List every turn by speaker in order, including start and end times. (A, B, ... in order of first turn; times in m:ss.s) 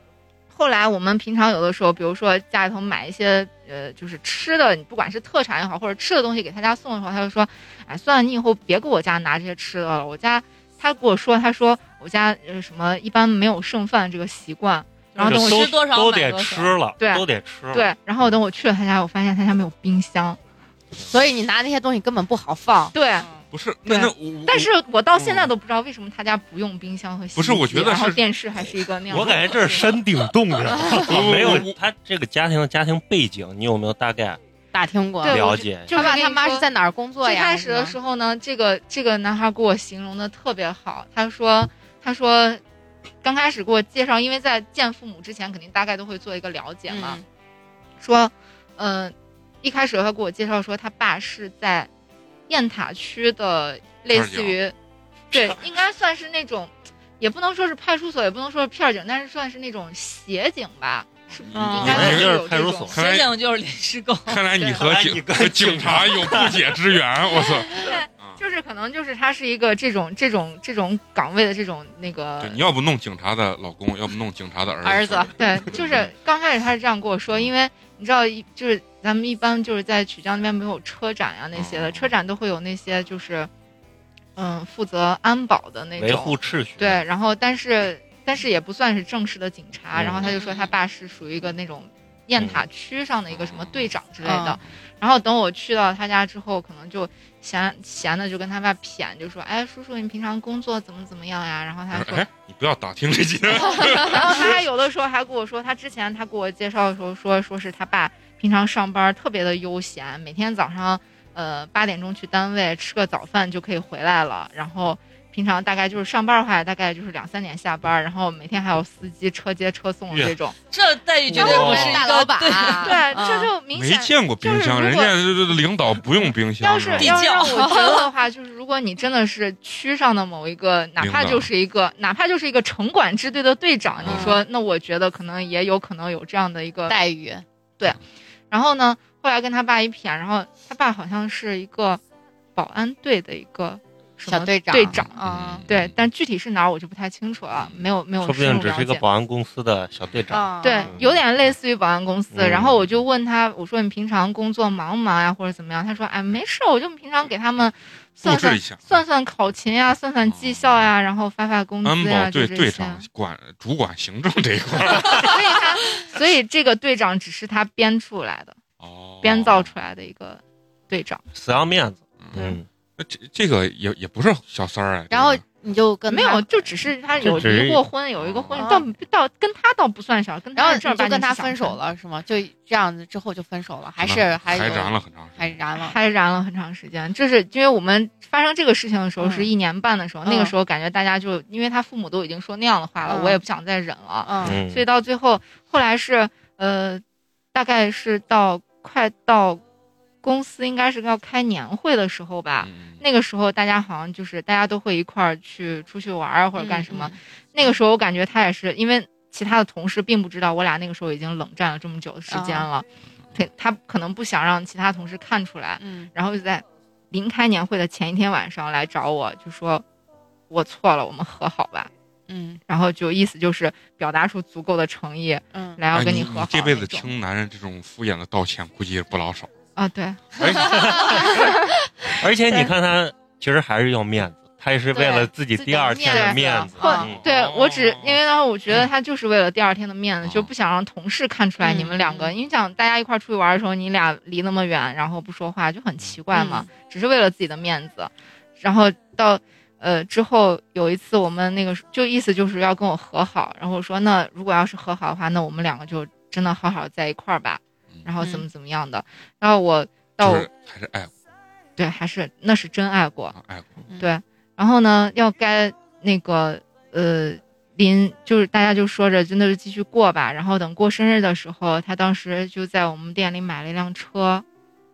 0:00.5-0:15.7 A
0:15.2-0:16.8 B
0:15.2-0:17.9 C
0:17.0-0:20.4 A
0:21.0-0:23.0 D
0:22.9-0:23.3 A
0:23.5-0:24.7 E
0:23.9-0:29.9 A
0:27.4-0:28.2 E
0:29.1-0:34.4 C
0:31.0-0:31.8 E
0:34.7-0:38.0 D
0:35.2-0:36.7 A
0:35.3-0:35.9 C
0:37.2-0:42.6 A
0:43.2-0:47.2 A
0:46.9-0:47.2 D
0:48.0-0:51.9 A
0:52.5-0:54.8 A
0:54.1-0:54.6 E
0:55.3-1:03.0 A
1:01.3-1:02.4 E
1:01.5-1:03.0 C
1:02.9-1:03.3 E
1:02.9-1:04.4 B
1:04.3-1:08.4 E
1:04.6-1:04.8 A
1:04.7-1:06.8 C
1:07.7-1:12.6 A
1:12.4-1:16.1 E
1:14.8-1:15.4 D
1:15.4-1:23.5 A
1:21.6-1:22.1 E
1:24.4-1:42.3 A
1:26.0-1:27.0 C
1:30.0-1:30.3 C
1:30.2-1:30.7 D
1:32.4-1:32.6 C
1:33.3-1:33.9 E
1:34.2-1:34.6 D
1:41.9-1:44.6 E
1:43.6-2:00.6 A
2:00.1-2:00.4 C
2:00.7-2:03.5 B
2:01.3-2:02.0 C
2:01.3-2:03.4 D
2:02.8-2:05.2 A
2:03.7-2:07.2 E
2:06.6-2:17.0 A
2:07.0-2:08.1 B
2:07.6-2:07.9 D
2:11.0-2:11.5 E
2:14.0-2:14.4 E
2:14.0-2:14.4 D
2:16.9-2:17.4 D
2:17.8-2:22.0 A
2:22.6-2:25.1 A
2:24.3-2:25.7 D
2:25.0-2:26.0 E
2:25.6-2:29.0 A
2:27.6-2:27.8 E
2:28.2-2:31.1 C
2:30.1-2:30.4 E
2:30.3-2:30.9 D
2:30.6-2:43.1 A
2:32.3-2:32.7 C
2:38.2-2:39.0 E
2:40.3-2:40.9 E
2:41.8-2:45.6 E
2:45.0-2:48.6 A
2:48.8-2:49.7 E
2:49.2-2:51.2 A
2:51.3-2:52.7 C
2:53.0-2:55.4 E
2:55.1-2:56.8 D
2:56.1-3:01.8 A
2:57.2-2:57.8 C
2:58.2-2:58.7 E
2:58.6-2:58.9 D
3:00.6-3:06.0 D
3:04.0-3:05.6 E
3:05.8-3:17.0 A
3:09.2-3:09.5 D
3:10.2-3:10.5 D
3:13.1-3:13.4 D
3:14.2-3:14.6 D
3:14.4-3:14.9 C
3:17.5-3:19.6 A
3:20.2-3:39.8 A
3:22.6-3:23.0 E
3:26.6-3:27.2 D
3:32.3-3:32.7 D
3:35.8-3:36.1 D
3:40.5-3:41.9 A
3:42.3-3:42.6 D
3:42.7-3:47.1 A
3:45.5-3:45.8 D
3:45.9-3:49.5 E
3:49.8-3:51.7 A
3:50.4-3:51.2 E
3:50.7-3:51.4 D
3:52.2-3:57.2 C
3:54.9-3:57.1 D
3:56.8-4:20.5 A
3:57.0-3:58.2 E
4:01.6-4:02.3 D
4:06.3-4:06.7 D
4:18.2-4:18.5 D
4:20.2-4:21.1 E
4:21.8-4:23.4 A
4:23.4-4:23.8 E
4:24.0-4:34.4 A